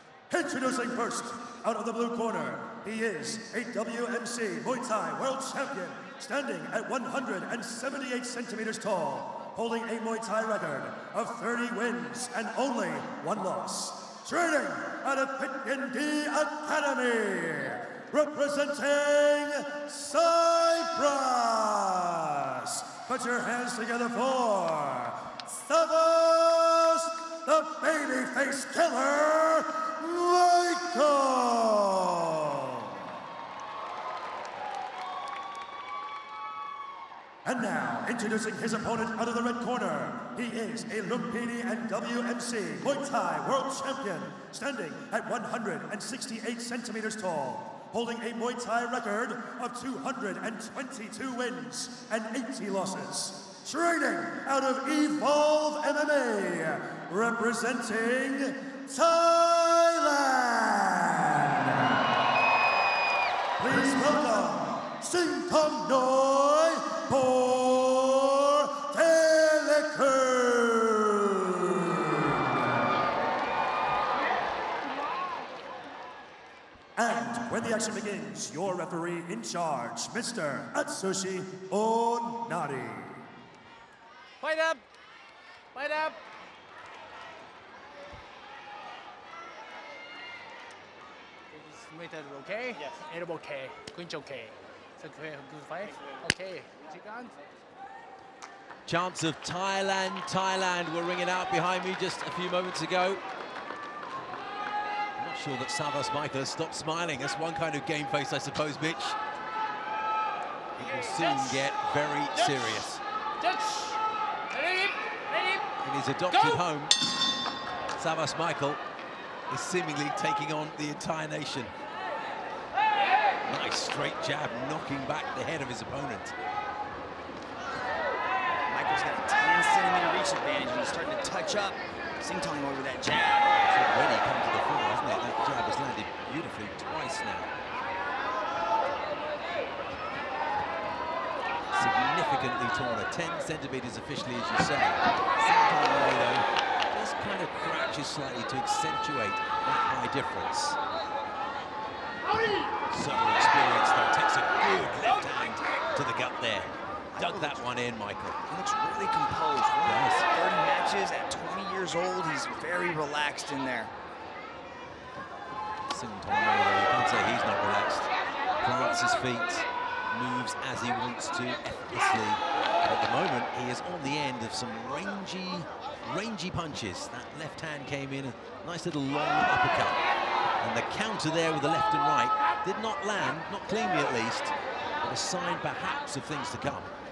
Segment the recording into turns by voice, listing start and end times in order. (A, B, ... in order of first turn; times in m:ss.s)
0:00.3-0:32.7 A
0:37.4-1:01.8 A
1:03.6-1:12.7 A
1:17.0-1:23.2 A
1:24.4-1:24.8 B
1:25.7-1:26.2 B
1:31.5-1:37.3 B
1:38.9-1:43.2 C
1:45.2-1:49.2 C
1:50.8-1:53.0 C
1:50.9-1:51.5 B
1:53.4-1:54.0 B
1:54.5-1:55.6 B
1:55.8-1:57.0 C
1:56.3-1:56.6 B
1:58.0-1:58.8 C
1:59.5-2:01.7 C
2:03.4-2:06.3 C
2:08.7-2:13.5 D
2:13.7-2:17.5 C
2:21.7-2:30.8 C
2:32.9-2:38.4 C
2:37.1-2:37.6 D
2:38.5-2:43.9 D
2:39.8-2:40.3 C
2:45.9-2:48.1 C
2:48.6-3:00.0 C
3:00.6-3:06.9 C